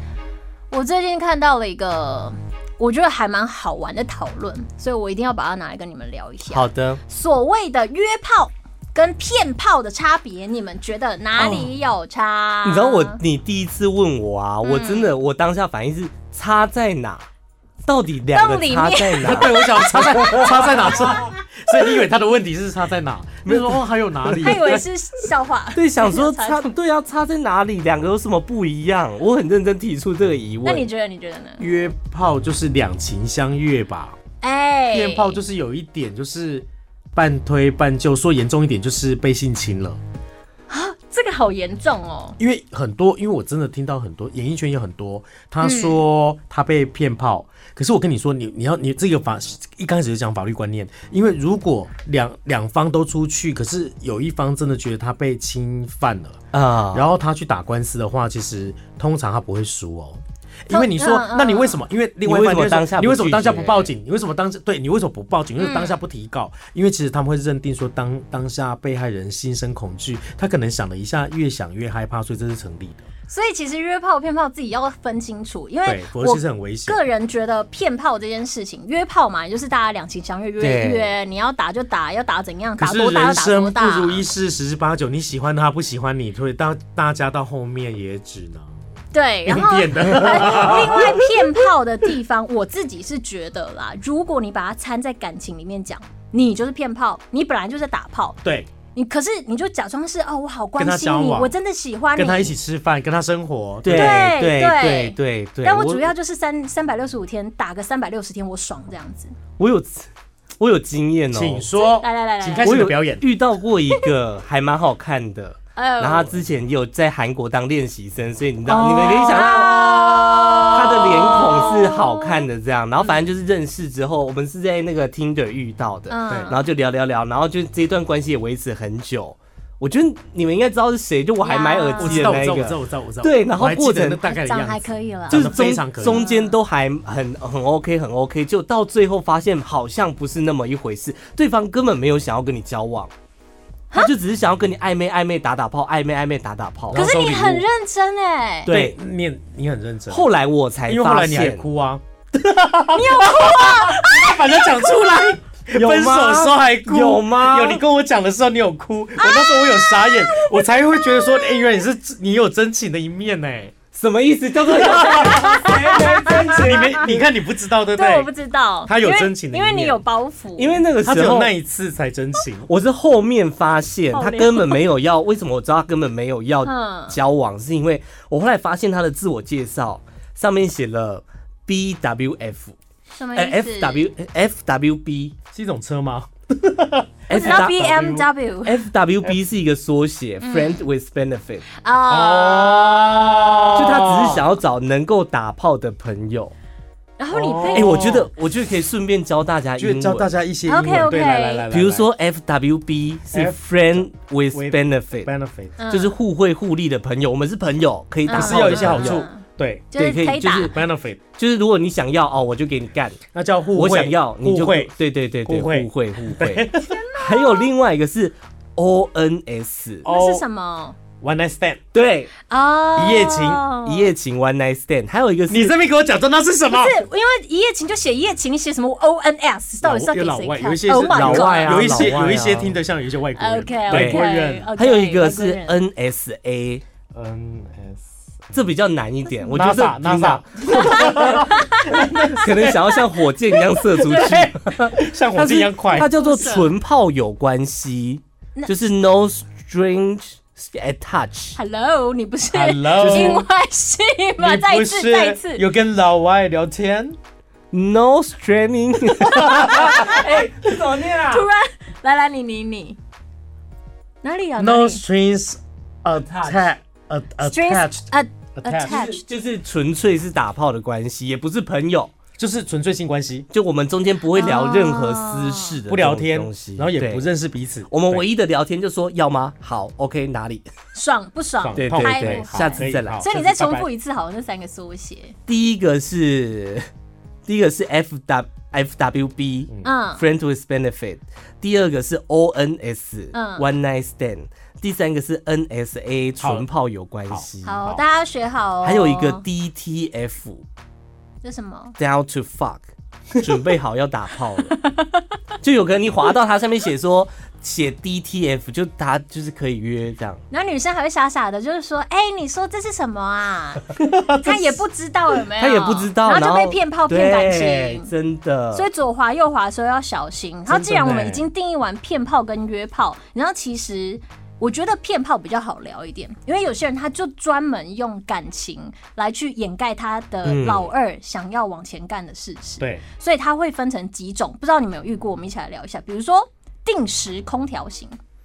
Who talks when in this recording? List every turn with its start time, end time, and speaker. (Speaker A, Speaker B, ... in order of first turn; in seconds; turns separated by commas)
Speaker A: 0.7-13.2, Speaker B: 6.5-7.0, Speaker B: 12.6-17.2, Speaker A: 14.6-15.1, Speaker B: 17.8-20.6, Speaker A: 18.3-21.0, Speaker C: 19.2-24.8, Speaker B: 23.4-23.8, Speaker B: 24.3-24.5, Speaker A: 24.4-26.7, Speaker B: 25.7-30.9, Speaker A: 30.6-31.6, Speaker C: 31.6-34.2, Speaker A: 34.4-35.4, Speaker C: 34.9-40.0, Speaker A: 40.7-42.4, Speaker C: 42.4-56.4, Speaker A: 45.6-46.0, Speaker B: 56.5-57.0, Speaker C: 56.9-73.1, Speaker A: 60.7-61.8, Speaker B: 62.2-63.9, Speaker A: 65.6-66.0, Speaker A: 73.3-84.2, Speaker C: 75.8-77.0, Speaker B: 80.6-81.1, Speaker C: 82.8-88.7, Speaker A: 89.1-98.4, Speaker C: 89.5-91.3, Speaker C: 98.4-98.7, Speaker A: 98.9-102.5, Speaker C: 100.8-101.5, Speaker C: 102.2-104.3, Speaker B: 103.8-106.1, Speaker A: 103.9-109.3, Speaker B: 109.6-111.7, Speaker C: 111.3-113.2, Speaker A: 111.7-112.7, Speaker B: 112.6-134.2, Speaker A: 115.8-116.3, Speaker A: 118.7-122.5, Speaker C: 118.8-121.4, Speaker A: 126.1-126.6, Speaker C: 126.3-126.5, Speaker A: 131.4-132.4, Speaker C: 132.0-136.2, Speaker A: 134.2-136.6, Speaker B: 135.3-143.1, Speaker B: 143.9-147.6, Speaker C: 146.9-147.6, Speaker A: 146.9-148.7, Speaker B: 148.7-149.0, Speaker C: 148.7-150.3, Speaker B: 150.1-151.6, Speaker C: 150.9-163.7, Speaker A: 152.9-154.7, Speaker B: 155.7-157.8, Speaker A: 159.2-161.7, Speaker B: 163.9-167.1, Speaker C: 164.7-168.3, Speaker A: 164.8-167.1, Speaker A: 167.9-170.8, Speaker C: 168.8-170.0, Speaker B: 170.6-171.5, Speaker C: 171.0-172.7, Speaker B: 172.7-182.8, Speaker A: 174.1-174.8, Speaker A: 176.6-177.2, Speaker A: 183.1-184.1, Speaker B: 183.3-185.3, Speaker C: 185.5-188.3, Speaker B: 187.3-187.9, Speaker A: 187.3-188.8, Speaker B: 188.6-191.7, Speaker A: 190.4-190.8, Speaker A: 191.7-193.1, Speaker C: 192.1-194.4, Speaker B: 193.8-196.5, Speaker A: 197.2-198.2, Speaker C: 197.3-198.3, Speaker B: 197.7-200.3, Speaker C: 199.8-202.1, Speaker A: 200.7-201.7, Speaker B: 201.7-205.3, Speaker C: 203.3-205.8, Speaker A: 205.8-206.2, Speaker B: 205.9-209.2, Speaker A: 208.2-210.7, Speaker C: 208.3-209.9, Speaker B: 209.9-210.8, Speaker C: 210.6-211.2, Speaker B: 211.3-213.2, Speaker C: 213.3-214.9, Speaker B: 213.7-220.0, Speaker C: 215.4-217.0, Speaker A: 216.8-217.7, Speaker C: 220.0-220.4, Speaker A: 220.0-221.0, Speaker C: 221.2-221.8, Speaker B: 221.9-222.3, Speaker A: 222.5-224.1, Speaker C: 222.9-223.6, Speaker B: 223.8-225.7, Speaker C: 225.5-227.0, Speaker A: 226.7-232.1, Speaker C: 229.8-234.7, Speaker B: 231.1-232.7, Speaker A: 233.3-235.8, Speaker B: 233.9-234.2, Speaker B: 234.8-236.8, Speaker C: 237.1-238.6, Speaker B: 238.5-241.5, Speaker C: 239.5-242.8, Speaker A: 240.6-243.0, Speaker B: 242.3-251.6, Speaker A: 243.7-244.4, Speaker C: 243.9-246.1, Speaker A: 245.9-246.7, Speaker A: 251.6-255.6, Speaker C: 252.5-253.4, Speaker B: 253.0-253.4, Speaker C: 254.4-257.2, Speaker B: 257.7-261.5, Speaker A: 259.2-260.4, Speaker C: 259.2-260.3, Speaker A: 261.2-263.0, Speaker A: 264.2-265.0, Speaker C: 264.6-269.1, Speaker B: 266.1-266.7, Speaker A: 267.4-269.2, Speaker B: 268.8-272.1, Speaker C: 272.4-273.5, Speaker B: 273.5-277.2, Speaker A: 274.3-275.8, Speaker C: 275.9-278.2, Speaker B: 277.9-280.6, Speaker A: 280.9-285.4, Speaker C: 281.6-283.9, Speaker B: 281.8-283.2, Speaker B: 285.5-286.9, Speaker B: 287.4-297.8, Speaker A: 289.8-290.2, Speaker A: 293.3-293.7, Speaker C: 296.4-296.7, Speaker C: 297.3-298.0, Speaker A: 297.6-299.4, Speaker B: 298.8-300.6, Speaker A: 301.4-301.9, Speaker B: 302.0-302.8, Speaker B: 303.4-304.8, Speaker A: 304.8-305.0, Speaker B: 305.6-310.4, Speaker A: 310.5-318.1, Speaker C: 314.0-314.7, Speaker B: 315.6-318.9, Speaker A: 318.7-338.2, Speaker C: 320.7-321.4, Speaker B: 330.4-330.9